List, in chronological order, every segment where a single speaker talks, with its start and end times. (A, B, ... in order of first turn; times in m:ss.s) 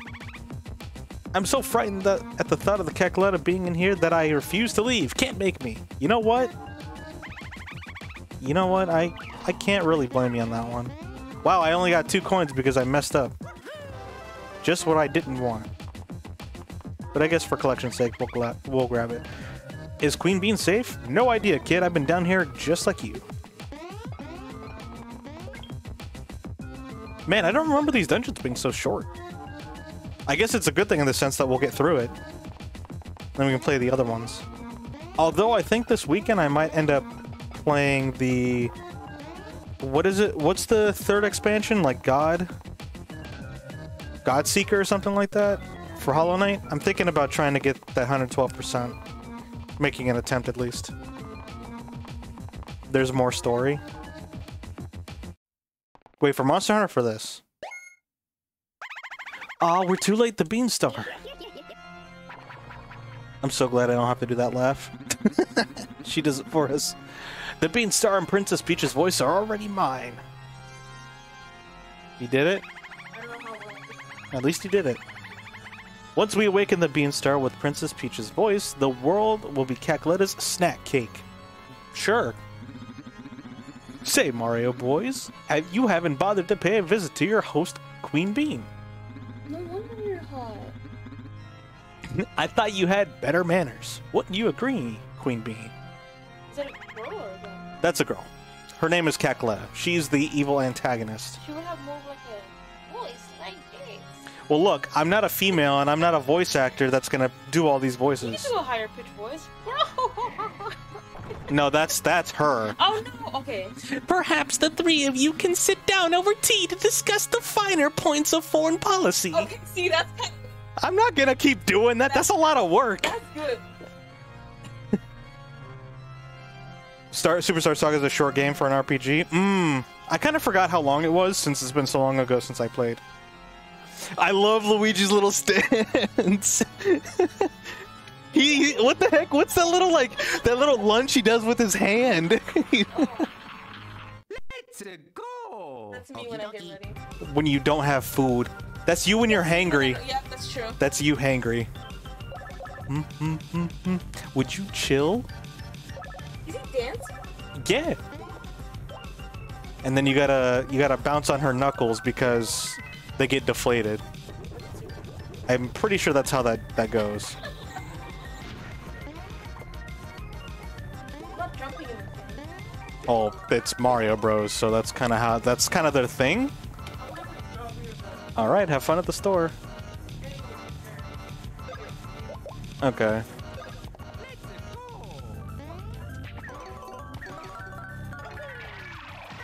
0:01.3-0:06.5 A
0:08.4-0:13.4 A
0:14.6-0:15.7 A
0:17.1-0:19.3 A
0:20.0-0:23.3 A
0:27.3-0:29.1 A
0:30.3-0:32.2 A
0:33.4-0:34.5 A
0:35.2-0:38.7 A
0:39.8-0:42.5 A
0:44.2-0:49.0 A
0:49.8-0:50.9 A
0:52.9-0:53.8 A
0:56.2-0:57.4 A
0:59.6-1:01.2 A
1:01.3-1:01.7 B
1:03.4-1:10.2 A
1:12.2-1:12.6 A
1:13.1-1:14.0 C
1:14.3-1:15.0 A
1:16.2-1:21.3 A
1:21.9-1:22.4 A
1:24.0-1:28.7 A
1:29.5-1:30.8 C
1:32.0-1:35.7 A
1:36.5-1:37.6 C
1:37.8-1:41.4 A
1:41.4-1:44.1 C
1:44.5-1:48.5 A
1:48.2-1:50.8 C
1:51.5-1:52.8 A
1:52.8-1:53.8 C
1:53.8-1:59.5 A
1:59.3-2:00.5 C
2:00.8-2:03.2 A
2:03.0-2:03.6 C
2:07.1-2:13.0 A
2:14.0-2:17.8 A
2:18.3-2:23.3 A
2:23.0-2:23.3 C
2:24.3-2:26.8 B
2:25.9-2:27.0 C
2:27.2-2:30.0 A
2:29.2-2:30.8 C
2:30.8-2:31.7 A
2:32.9-2:35.3 A
2:36.4-2:37.1 C
2:37.6-2:38.0 A
2:39.8-2:44.1 A
2:44.6-2:44.8 C
2:45.5-2:47.4 A
2:51.3-2:52.5 C
2:53.1-2:56.5 A
2:57.0-2:58.3 C
2:58.4-2:59.6 A
3:00.2-3:01.1 C
3:01.7-3:02.2 C
3:02.8-3:03.3 A
3:04.2-3:05.5 B
3:08.5-3:09.0 B